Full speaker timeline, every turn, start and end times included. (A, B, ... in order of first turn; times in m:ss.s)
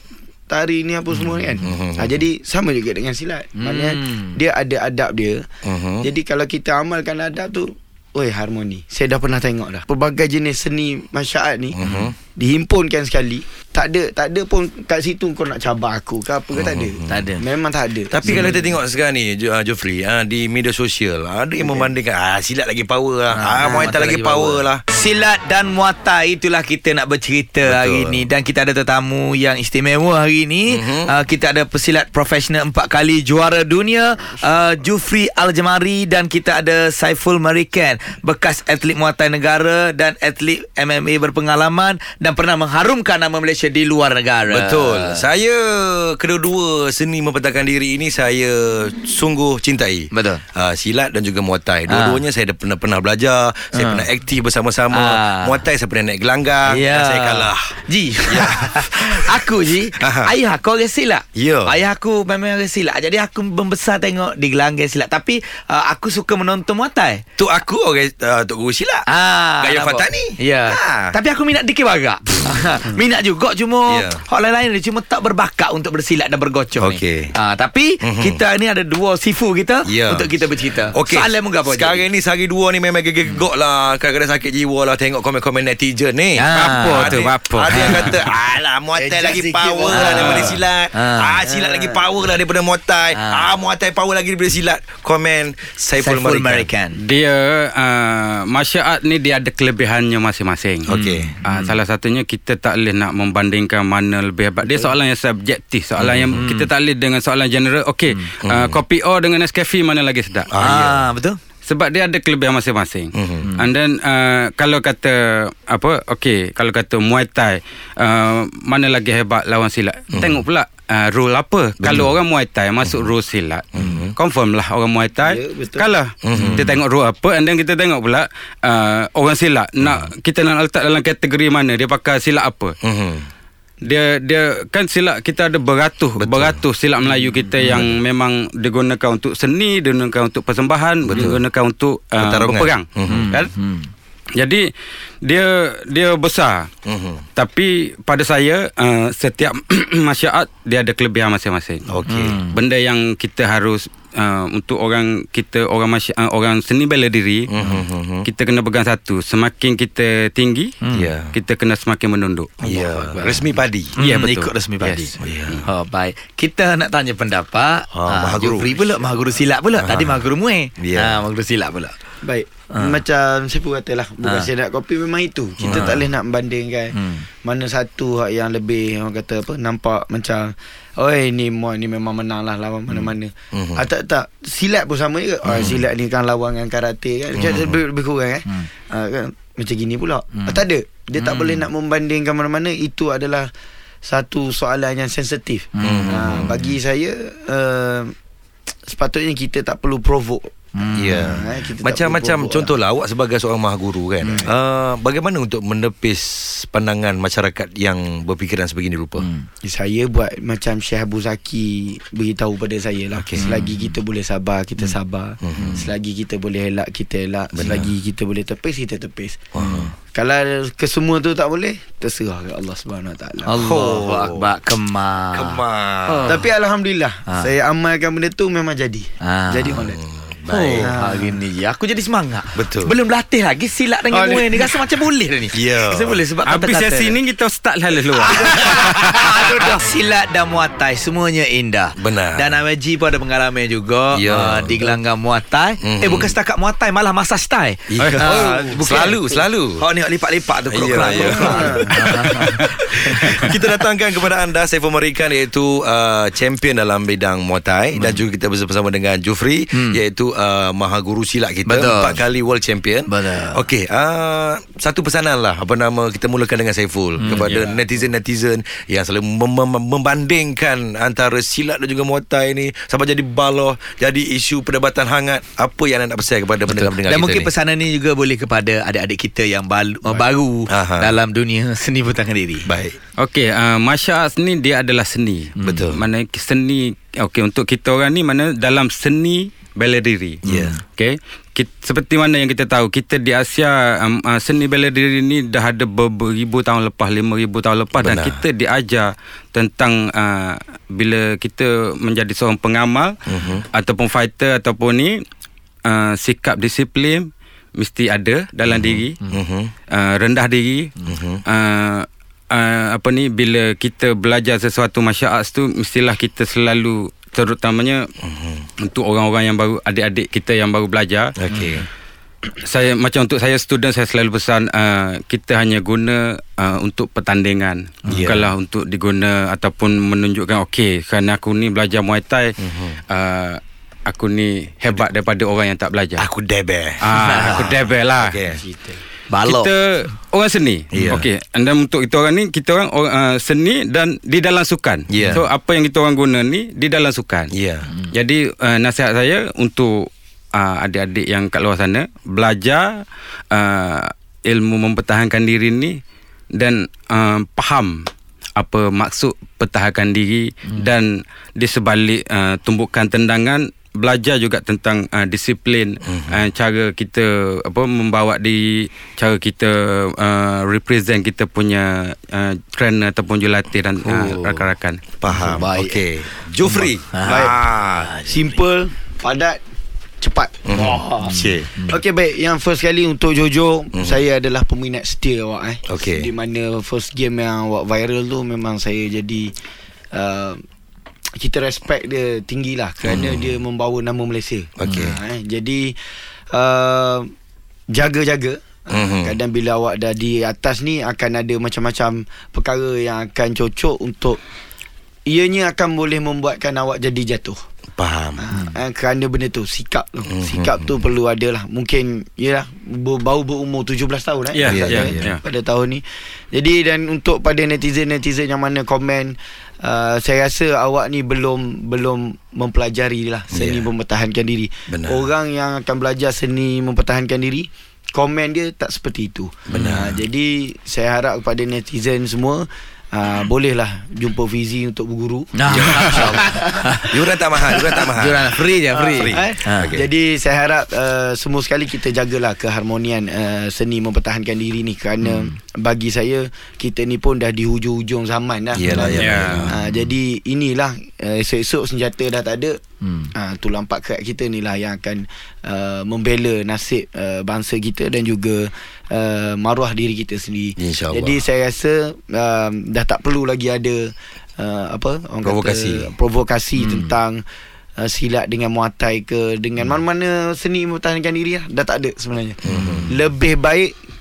0:00.5-0:05.4 A
0:01.2-0:01.6 B
0:01.6-0:02.2 C
0:03.6-0:04.4 B
0:05.6-0:06.0 C
0:06.0-0:11.8 A
0:11.8-0:12.1 C
0:11.8-0:12.1 B
0:12.3-0:18.5 A
0:16.5-0:17.2 C
0:17.1-0:17.4 B
0:18.1-0:24.8 C
0:18.2-0:18.7 B
0:23.3-0:45.2 B
0:27.6-0:28.3 C
0:30.7-0:31.1 C
0:44.5-1:00.3 C
0:50.1-0:50.4 B
0:51.9-0:52.2 B
0:53.7-0:54.1 B
0:54.9-0:55.6 B
0:56.6-1:07.2 B
1:01.3-1:01.8 C
1:07.4-1:09.0 C
1:09.1-1:22.0 B
1:09.6-1:11.1 C
1:13.9-1:14.2 C
1:16.8-1:17.3 C
1:18.0-1:18.4 C
1:19.8-1:20.3 C
1:20.9-1:36.7 C
1:26.4-1:28.2 B
1:26.5-1:28.2 D
1:29.0-1:32.0 B
1:30.0-1:30.5 D
1:33.1-1:33.5 B
1:36.0-1:37.0 B
1:37.0-1:40.9 D
1:40.8-1:41.3 C
1:40.9-1:41.8 B
1:41.4-1:50.5 D
1:46.0-1:46.4 C
1:46.3-1:46.7 B
1:48.4-1:48.8 C
1:50.5-1:51.1 C
1:50.6-1:51.4 B
1:51.6-2:12.7 D
1:53.1-1:53.5 C
1:53.4-1:53.7 B
2:00.1-2:00.4 C
2:01.8-2:02.1 C
2:03.7-2:04.1 C
2:05.2-2:05.9 A
2:06.2-2:06.8 C
2:06.4-2:06.6 B
2:09.8-2:10.1 C
2:12.8-2:13.3 C
2:13.8-2:23.5 D
2:16.2-2:16.6 C
2:17.6-2:17.9 C
2:21.0-2:21.4 C
2:22.2-2:23.3 C
2:23.0-2:23.9 B
2:24.4-2:24.6 D
2:25.2-2:26.7 D
2:26.8-2:27.2 C
2:27.4-2:31.8 D
2:31.9-2:32.4 C
2:32.1-2:32.6 B
2:32.5-2:37.5 D
2:37.5-2:38.3 C
2:38.2-2:40.7 D
2:40.8-2:41.1 B
2:40.9-2:41.3 C
2:41.3-2:42.8 D
2:42.6-2:44.0 C
2:42.6-2:51.9 B
2:44.0-2:45.1 D
2:45.2-2:45.6 C
2:47.9-2:49.2 C
2:49.8-2:50.3 C
2:50.8-2:51.2 C
2:52.2-3:13.5 A
2:52.7-2:53.0 B
2:55.6-2:56.0 C
2:55.7-2:56.0 B
2:56.9-2:57.2 B
3:03.5-3:03.8 C
3:05.4-3:05.8 C
3:07.3-3:07.8 C
3:10.4-3:10.6 B
3:11.2-3:11.6 B
3:14.0-3:18.1 A
3:15.8-3:16.7 B
3:15.8-3:16.5 C
3:18.8-3:22.7 A
3:20.8-3:21.5 B
3:20.9-3:29.3 C
3:29.2-3:29.5 B
3:29.6-3:39.4 A
3:33.2-3:33.5 C
3:33.4-3:33.9 B
3:35.4-3:35.8 C
3:35.6-3:35.9 B
3:37.5-3:37.9 C
3:39.5-3:39.9 C
3:39.6-3:39.9 B
3:40.1-3:43.6 A
3:43.4-3:46.5 B
3:43.5-3:44.5 C
3:45.3-3:46.4 C
3:46.2-3:50.0 A
3:49.2-3:49.8 B
3:49.9-3:50.9 C
3:50.5-3:57.2 B
3:50.8-3:51.4 A
3:52.5-3:52.9 C
3:54.1-3:54.9 A
3:55.5-3:56.2 C
3:56.4-3:59.6 D
3:58.1-4:13.6 B
4:02.0-4:02.6 C
4:04.1-4:04.9 C
4:05.8-4:06.4 C
4:07.9-4:09.8 C
4:08.0-4:08.2 D
4:08.3-4:08.7 A
4:10.7-4:37.5 C
4:11.2-4:12.0 A
4:12.0-4:13.5 D
4:18.0-4:18.2 B
4:19.7-4:20.0 B
4:21.6-4:22.2 B
4:23.1-4:23.6 B
4:27.2-4:27.8 B
4:27.3-4:27.6 D
4:36.7-4:42.7 B
4:40.7-4:41.2 C
4:42.6-4:43.0 C
4:43.2-4:50.4 D
4:45.6-4:45.9 B
4:45.6-4:46.0 C
4:50.4-4:50.8 C
4:50.4-4:50.8 B
4:51.0-5:03.2 D
4:58.0-4:58.4 C
5:03.3-5:03.6 C
5:03.7-5:05.2 D
5:05.8-5:09.2 D
5:08.7-5:09.7 C
5:09.9-5:18.1 D
5:11.0-5:11.4 C
5:18.2-5:18.6 C
5:18.8-5:21.3 D
5:21.4-5:21.9 C
5:21.5-5:21.8 B
5:22.6-5:32.5 D
5:28.1-5:28.5 C
5:32.6-5:33.0 C
5:33.1-5:36.2 D
5:36.2-5:38.6 C
5:37.0-5:38.4 D
5:37.1-5:37.7 B
5:38.7-5:39.0 A
5:39.3-5:39.7 B
5:39.4-5:47.5 D
5:40.9-5:41.2 C
5:45.1-5:45.4 C
5:47.5-5:47.9 C
5:48.1-5:56.0 D
5:56.6-5:58.0 D
5:58.6-6:15.0 D
6:06.0-6:06.4 C
6:14.0-6:14.7 B
6:15.2-6:18.1 C
6:15.3-6:16.0 B
6:16.6-6:18.4 B
6:17.2-6:17.6 A
6:18.2-6:19.6 A
6:20.2-6:29.5 A
6:20.6-6:21.7 C
6:21.2-6:22.0 B
6:23.9-6:24.2 C
6:25.8-6:26.3 C
6:30.1-6:30.6 A
6:31.4-6:36.0 A
6:33.0-6:33.6 C
6:34.8-6:35.2 C
6:34.9-6:35.1 B
6:36.5-6:37.3 A
6:37.9-6:44.4 A
6:38.9-6:39.3 C
6:45.3-6:47.6 A
6:48.0-6:48.4 C
6:48.4-7:17.0 A
6:50.3-6:50.9 C
6:54.5-6:55.4 D
6:54.7-6:55.3 C
7:03.5-7:03.9 C
7:04.9-7:05.2 C
7:09.7-7:10.2 C
7:09.7-7:10.1 B
7:15.6-7:19.9 B
7:15.7-7:20.0 C
7:18.9-7:32.8 A
7:25.2-7:25.5 B
7:28.7-7:29.8 C
7:28.9-7:30.0 B
7:29.2-7:29.7 D
7:33.0-7:33.3 B
7:33.3-7:47.4 A
7:40.8-7:41.4 C
7:45.4-7:46.1 C
7:46.8-7:47.1 B
7:48.0-7:53.9 A
7:52.6-7:53.1 C
7:52.7-7:53.2 B